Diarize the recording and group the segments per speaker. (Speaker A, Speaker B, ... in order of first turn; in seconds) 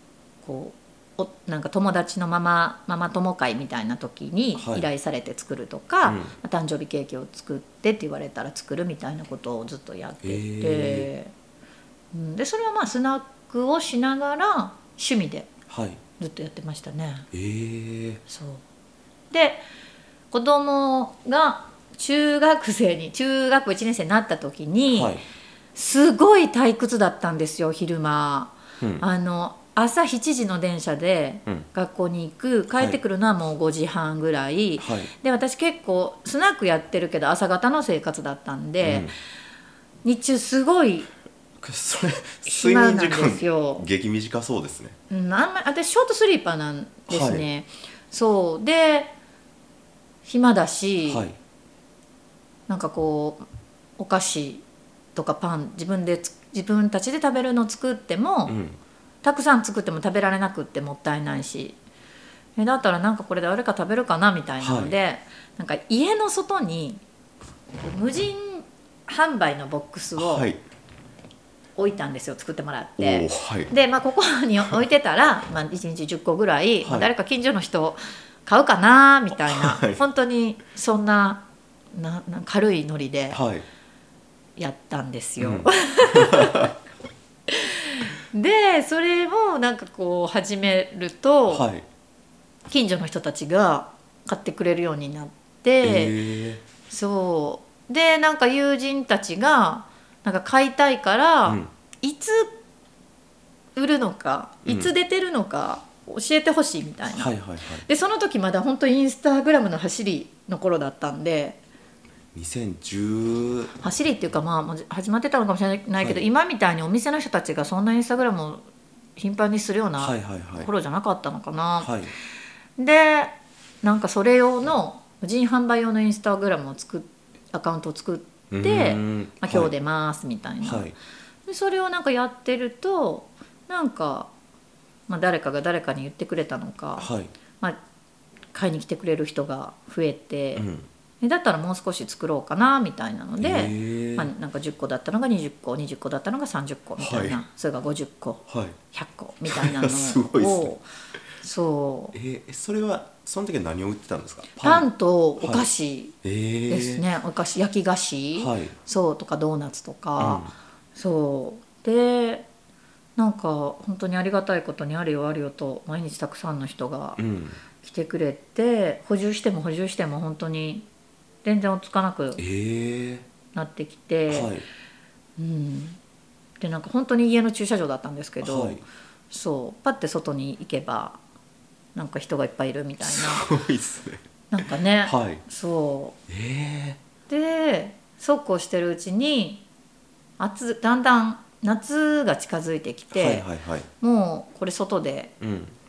Speaker A: 0.4-11.3, 12.1-15.5, 16.2-17.3, 18.3-18.6, 19.3-19.6, 20.3-25.1, 25.7-39.1, 40.0-41.1, 42.5-43.9, 45.1-49.1, 50.2-51.2, 52.7-53.4, 54.0-54.6, 55.1-58.5, 59.2-61.8, 62.6-67.0, 67.8-70.5, 71.8-81.4, 81.9-83.4, 84.6-86.7, 87.5-91.7, 92.7-96.2, 96.8-102.5, 103.7-107.3, 107.8-111.6, 113.8-118.6, 119.2-121.9, 122.8-130.9, 131.5-134.3, 135.1-137.8, 138.5-140.7, 141.2-150.9, 151.4-152.2, 154.6-156.2, 156.7-162.4, 163.2-167.2, 167.8-170.9, 171.4-172.4, 173.5-174.5, 175.4-176.0, 176.6-181.2, 181.9-183.5, 184.5-186.2, 187.3-189.6, 190.4-193.5, 194.0-195.3
Speaker B: 4.5-4.9, 6.0-6.3, 10.2-11.1, 15.7-16.0, 17.3-18.2, 24.9-25.2, 28.8-29.0, 34.8-35.1, 38.8-39.1, 41.6-45.0, 47.1-47.5, 51.1-51.4, 58.5-58.8, 64.6-65.0, 70.2-70.6, 73.0-73.7, 76.8-77.1, 79.4-80.0, 83.3-83.6, 85.4-86.7, 91.5-91.8, 95.8-96.6, 104.7-104.9, 107.1-107.8, 112.3-113.7, 116.0-116.2, 120.0-120.7, 121.8-122.1, 128.5-129.7, 130.6-130.9, 137.0-137.3, 140.6-140.9, 143.4-144.3, 147.0-147.4, 148.5-148.8, 149.4-150.7, 152.1-154.9, 155.4-155.7, 156.2-157.0, 158.4-158.7, 160.2-160.5, 167.2-167.6, 172.4-173.2, 174.3-174.6, 178.4-178.8, 183.0-184.2, 185.0-185.4, 186.3-187.0, 193.1-193.9, 195.4-195.7